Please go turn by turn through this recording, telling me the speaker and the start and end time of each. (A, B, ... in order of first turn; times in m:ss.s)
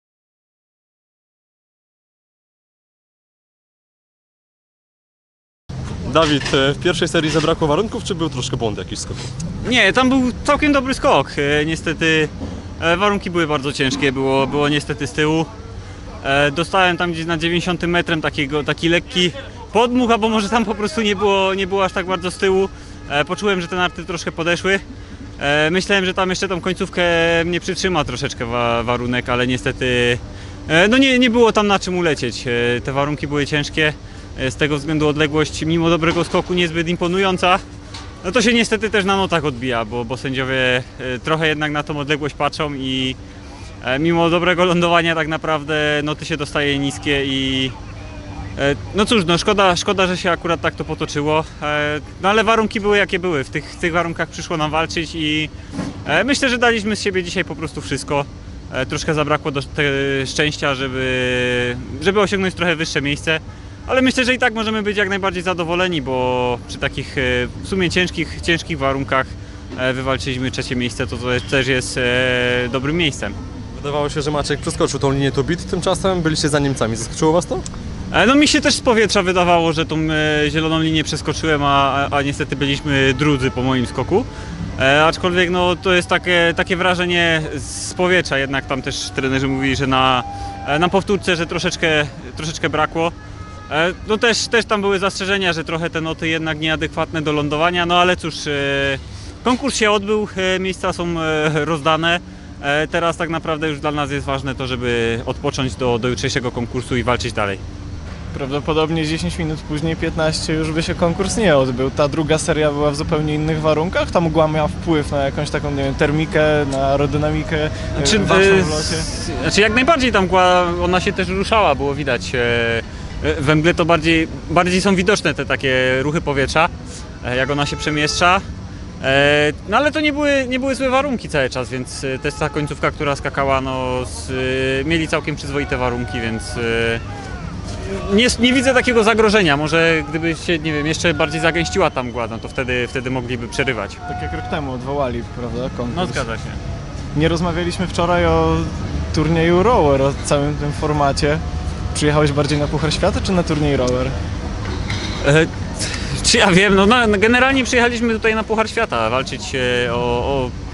0:06.0-0:09.3 A
0:09.6-0:15.5 B
0:16.2-0:24.8 B
0:25.4-0:37.6 B
0:38.2-0:43.2 B
0:43.8-0:47.7 B
0:48.6-0:55.5 B
0:56.0-1:13.4 B
1:13.8-1:17.7 A
1:18.1-1:33.1 B
1:33.7-1:47.6 B
1:48.3-1:59.1 C
1:57.9-2:08.4 B
2:09.0-2:17.0 B
2:17.8-2:24.0 B
2:24.1-2:26.3 C
2:25.9-2:26.6 B
2:27.2-2:31.4 C
2:31.9-2:34.1 C
2:35.2-2:40.6 B